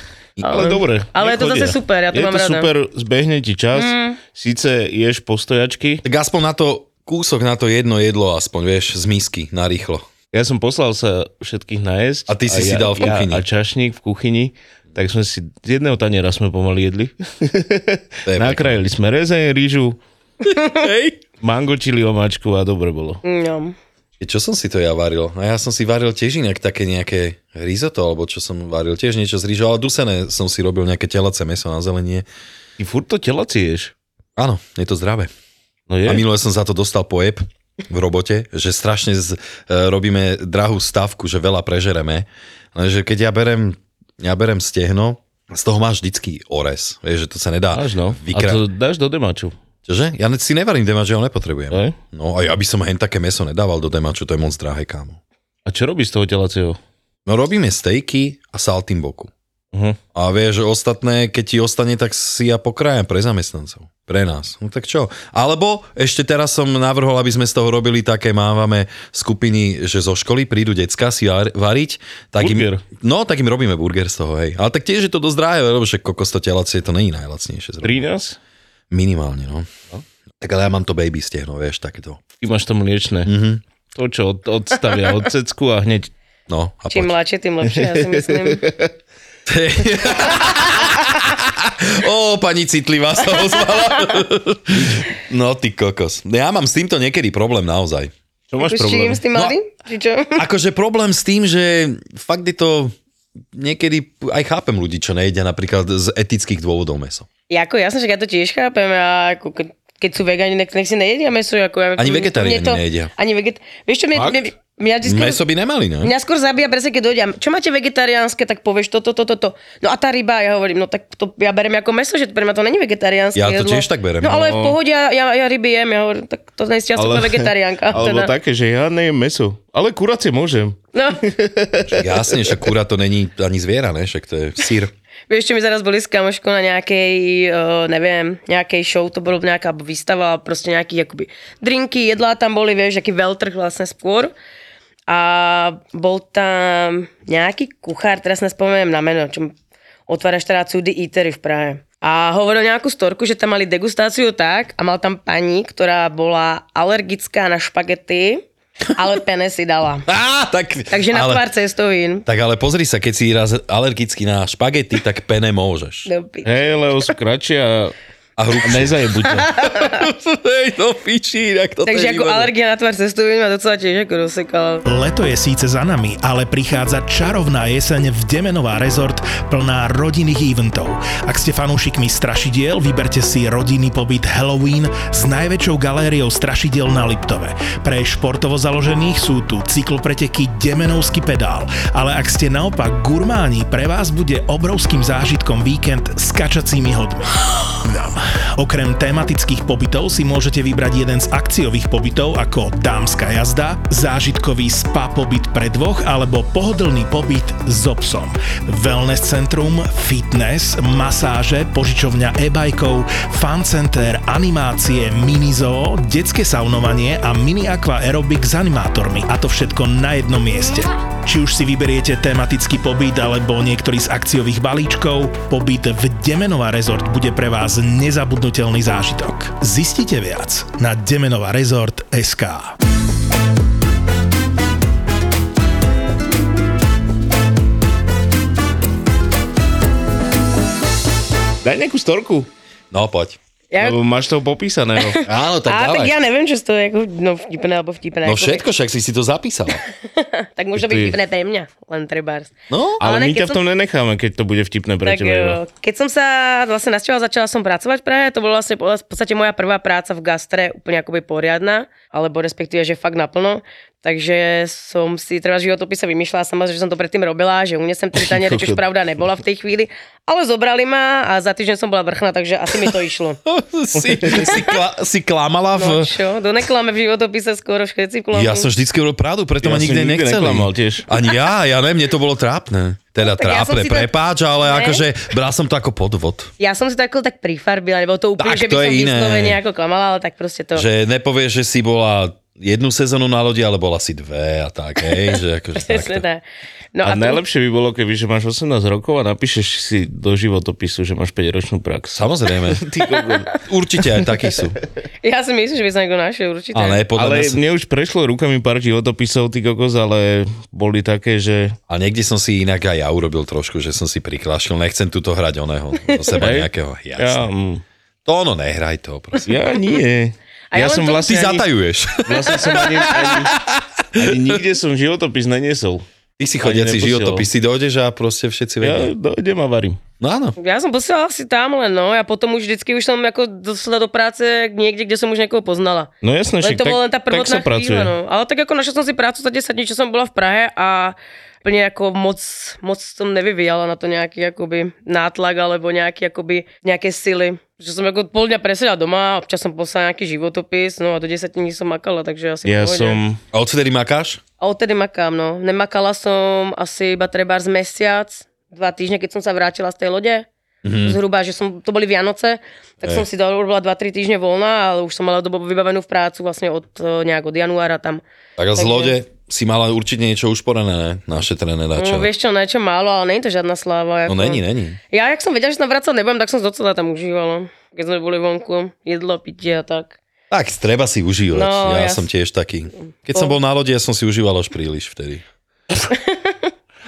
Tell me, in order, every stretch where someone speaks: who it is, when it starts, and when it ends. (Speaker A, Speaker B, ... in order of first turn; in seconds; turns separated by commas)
Speaker A: 0.4-0.7, Speaker B: 0.4-2.7, Speaker C: 0.5-6.0, Speaker B: 3.7-4.2, Speaker A: 6.0-10.1, Speaker C: 10.3-20.0, Speaker A: 12.3-13.5, Speaker A: 18.3-18.8, Speaker A: 20.4-21.2, Speaker C: 21.4-23.2, Speaker B: 23.2-23.8, Speaker A: 24.2-32.3, Speaker C: 32.8-33.9, Speaker A: 34.4-35.3, Speaker C: 35.9-36.2, Speaker A: 36.0-48.6, Speaker C: 47.7-49.5, Speaker A: 49.9-55.2, Speaker C: 55.7-56.8, Speaker A: 57.3-59.3, Speaker C: 59.7-60.0, Speaker A: 60.1-78.0, Speaker C: 72.4-72.8, Speaker C: 77.8-78.4, Speaker A: 78.9-79.7, Speaker A: 80.4-82.3, Speaker C: 82.4-83.3, Speaker A: 83.3-83.6, Speaker C: 84.0-86.1, Speaker A: 86.5-87.1, Speaker B: 86.9-88.7, Speaker C: 87.7-88.9, Speaker A: 89.5-98.1, Speaker C: 98.5-99.2, Speaker B: 98.6-100.4, Speaker A: 100.4-103.0, Speaker A: 103.5-107.3, Speaker B: 107.5-115.4, Speaker A: 112.0-113.1, Speaker A: 115.0-116.1, Speaker B: 116.0-128.3, Speaker A: 123.3-124.5, Speaker C: 124.3-124.8, Speaker C: 127.0-132.5, Speaker B: 130.9-131.2, Speaker A: 132.0-134.9, Speaker B: 135.3-144.3, Speaker B: 145.1-149.5, Speaker B: 150.1-160.1, Speaker A: 160.1-161.5, Speaker B: 160.9-162.2, Speaker A: 162.3-166.1, Speaker B: 166.1-166.6, Speaker C: 166.4-167.9, Speaker A: 168.4-172.5, Speaker C: 168.6-169.5, Speaker B: 169.4-170.1, Speaker B: 171.9-174.8, Speaker D: 174.8-232.8, Speaker C: 241.6-242.5, Speaker A: 242.9-243.4, Speaker B: 243.7-244.0, Speaker C: 243.8-245.2, Speaker B: 245.1-248.6, Speaker A: 245.2-246.2, Speaker A: 248.2-249.8, Speaker B: 249.8-253.6, Speaker C: 250.8-251.2, Speaker A: 252.7-253.0, Speaker C: 253.0-255.6, Speaker B: 255.1-273.4, Speaker C: 268.1-268.8, Speaker A: 273.5-276.1, Speaker C: 274.1-274.4, Speaker B: 274.3-274.8, Speaker B: 275.8-278.7, Speaker A: 278.3-286.5, Speaker C: 279.6-281.1, Speaker B: 283.2-284.1, Speaker B: 284.6-285.0, Speaker B: 286.6-290.9, Speaker A: 288.4-289.6, Speaker A: 290.8-296.2, Speaker B: 295.8-296.4, Speaker B: 296.9-297.4, Speaker C: 297.0-303.6, Speaker A: 302.1-302.9, Speaker A: 303.6-304.8, Speaker B: 305.2-307.0, Speaker A: 306.7-307.6, Speaker C: 307.1-311.8, Speaker A: 311.9-317.5, Speaker B: 316.1-316.4, Speaker C: 316.4-317.8, Speaker A: 318.2-319.5, Speaker C: 319.5-321.6, Speaker B: 320.7-321.6, Speaker A: 321.3-324.6, Speaker C: 322.3-323.6, Speaker C: 324.2-326.1, Speaker A: 326.4-329.1, Speaker C: 326.6-327.5, Speaker C: 328.8-330.0, Speaker A: 330.2-330.6, Speaker B: 330.6-353.2, Speaker C: 336.2-338.1, Speaker C: 352.6-353.4, Speaker A: 353.5-354.4, Speaker B: 354.6-360.5, Speaker A: 360.8-361.2, Speaker B: 361.0-368.2, Speaker A: 368.6-372.3, Speaker B: 368.8-369.1, Speaker B: 372.0-380.2, Speaker A: 374.3-375.0, Speaker A: 380.5-385.4, Speaker B: 381.5-382.3, Speaker B: 386.1-386.7